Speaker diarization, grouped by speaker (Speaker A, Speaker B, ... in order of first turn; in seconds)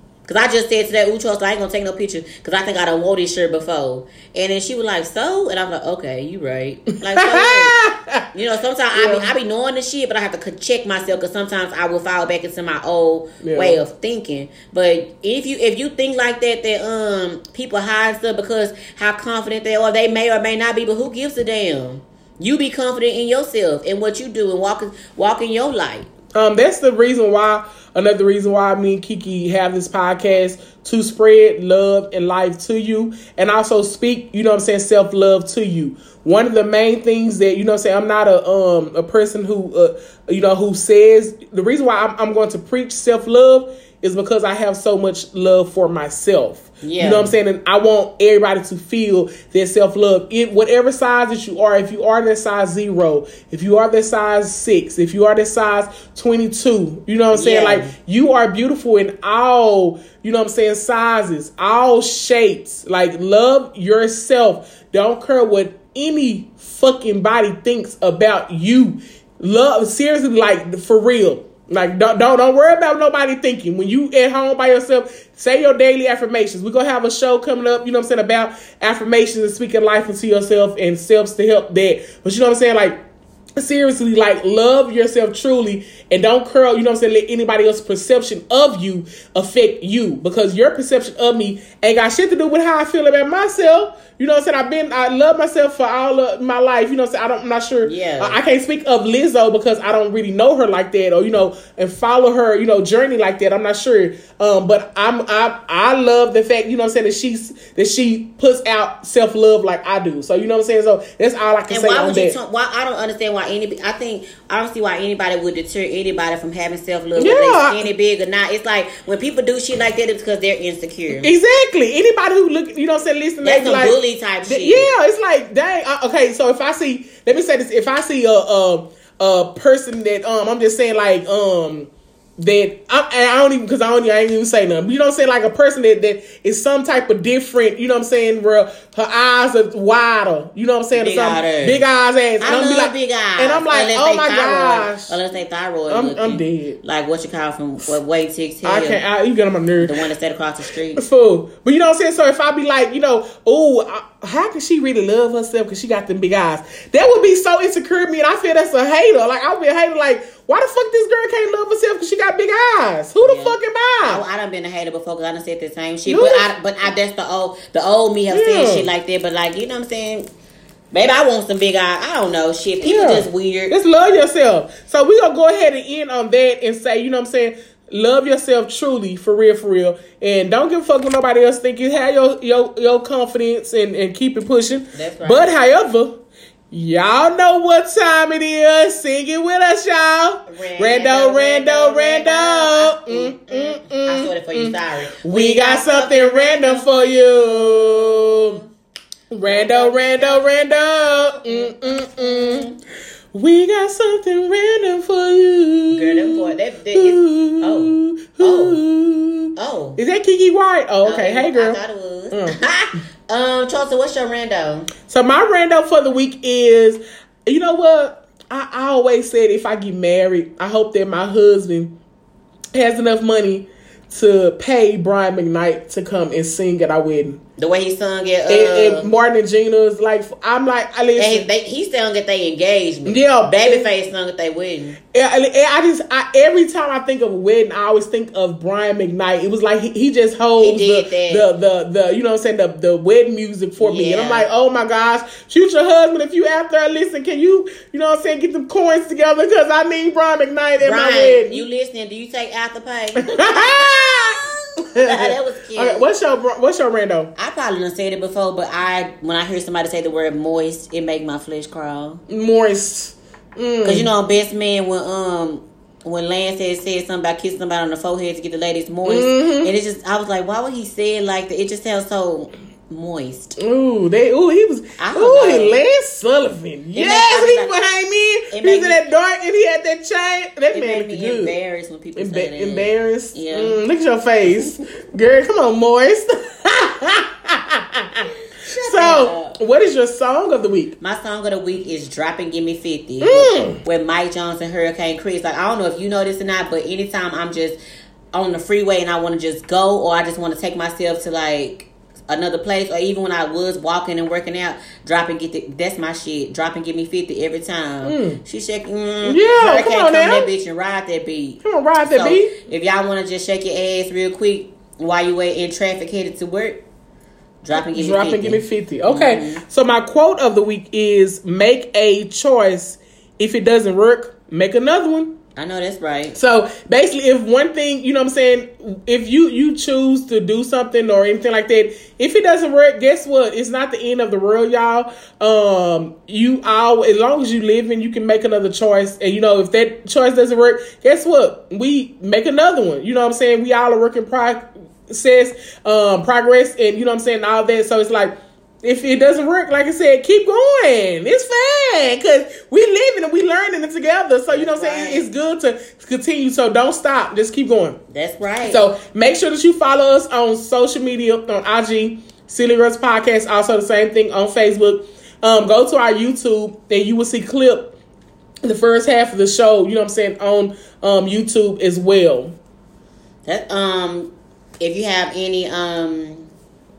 Speaker A: 0.3-7.8, 8.3-26.1, 46.8-47.4, 57.3-57.9, 97.8-98.4, 111.7-121.3, 123.4-124.9, 140.9-141.8, 142.4-149.0, 149.8-151.0, 163.2-170.3, 170.9-173.7, 184.9-185.5, 190.5-198.7, 199.5-200.4, 201.4-202.8, 205.9-208.8, 209.6-210.0, 211.0-214.9, 227.6-229.1, 231.2-235.0, 240.6-241.5, 243.8-244.5, 250.8-256.1, 257.4-262.2, 263.8-273.6, 275.0-275.8, 276.9-277.7, 278.5-279.0, 280.7-283.8, 288.7-289.6, 291.0-297.8, 298.3-316.8, 317.6-319.6, 325.6-326.4, 354.5-355.3, 358.1-358.8, 373.5-376.5
Speaker B: 7.1-8.3, 8.9-9.3, 13.4-13.8, 26.3-83.0, 83.6-112.4, 117.2-117.9, 121.2-145.2, 145.9-146.8, 148.6-149.9, 151.0-164.2, 166.1-166.5, 168.3-168.9, 172.8-198.6, 199.3-202.7, 203.3-211.8, 212.3-212.6, 215.1-221.9, 222.7-227.4, 228.5-231.5, 233.1-233.9, 235.1-251.7, 253.2-254.4, 254.9-257.3, 262.3-264.1, 269.1-269.7, 273.6-281.6, 282.1-290.9, 293.2-293.8, 308.0-308.4, 309.2-310.5, 311.6-312.5, 317.7-325.4, 326.4-358.0, 358.6-367.9, 368.6-372.6